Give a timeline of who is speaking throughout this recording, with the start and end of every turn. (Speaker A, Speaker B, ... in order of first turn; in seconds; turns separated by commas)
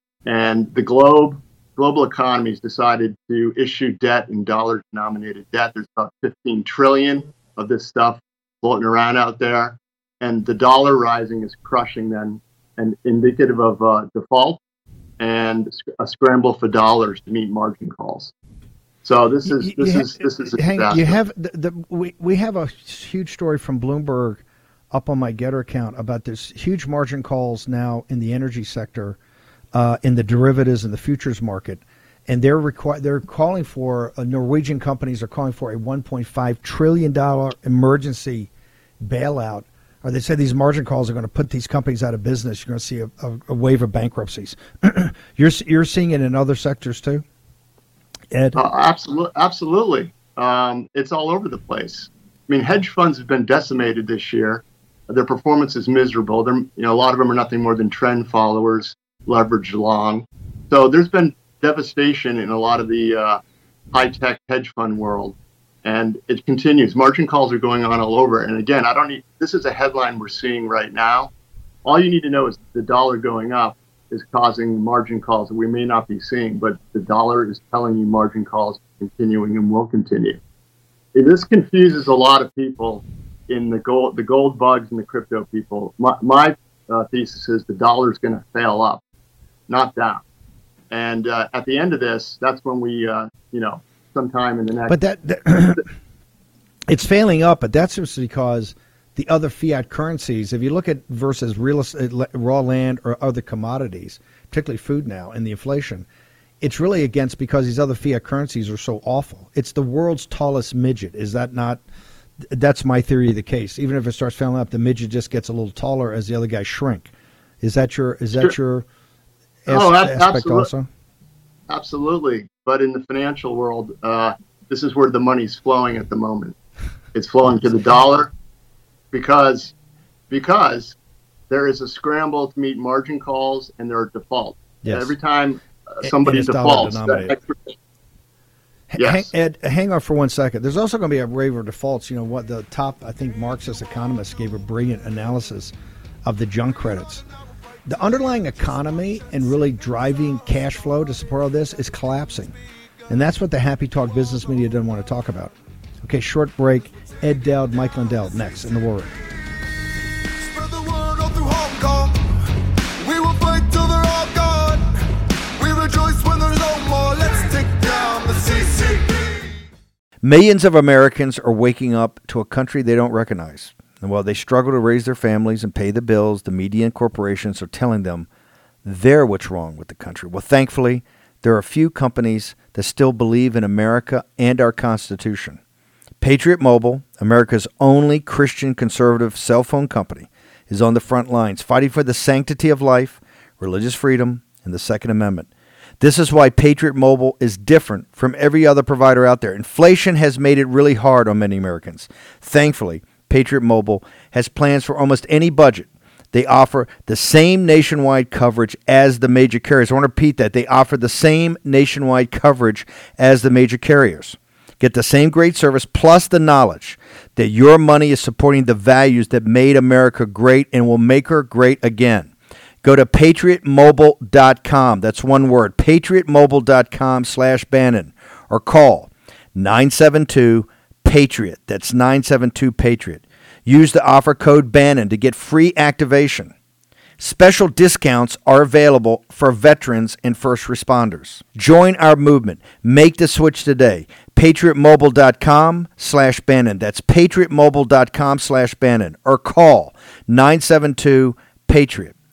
Speaker A: 0.2-14.6, Speaker A: 15.2-18.3, Speaker A: 19.0-21.2, Speaker B: 19.5-29.2, Speaker B: 29.7-38.5, Speaker B: 39.0-47.2, Speaker B: 48.3-48.6, Speaker A: 48.5-63.4, Speaker A: 63.9-71.3, Speaker A: 71.8-80.4, Speaker A: 81.1-89.0, Speaker A: 89.7-90.2, Speaker A: 90.9-95.0, Speaker B: 94.9-95.8, Speaker B: 96.9-106.0, Speaker B: 106.6-111.8, Speaker B: 112.4-118.8, Speaker B: 119.7-120.9, Speaker A: 119.7-120.7, Speaker A: 121.7-126.5, Speaker A: 127.1-128.3, Speaker A: 129.1-129.7, Speaker A: 130.3-130.9, Speaker A: 131.5-137.7, Speaker B: 134.8-135.1, Speaker B: 136.0-137.4, Speaker B: 138.9-147.2, Speaker A: 139.0-139.3, Speaker B: 147.8-152.6, Speaker B: 153.1-159.2, Speaker C: 160.2-162.4, Speaker C: 163.0-169.6, Speaker B: 170.2-178.3, Speaker B: 178.8-185.6, Speaker B: 186.2-195.5, Speaker B: 196.0-222.3, Speaker B: 222.8-236.5, Speaker B: 237.2-252.1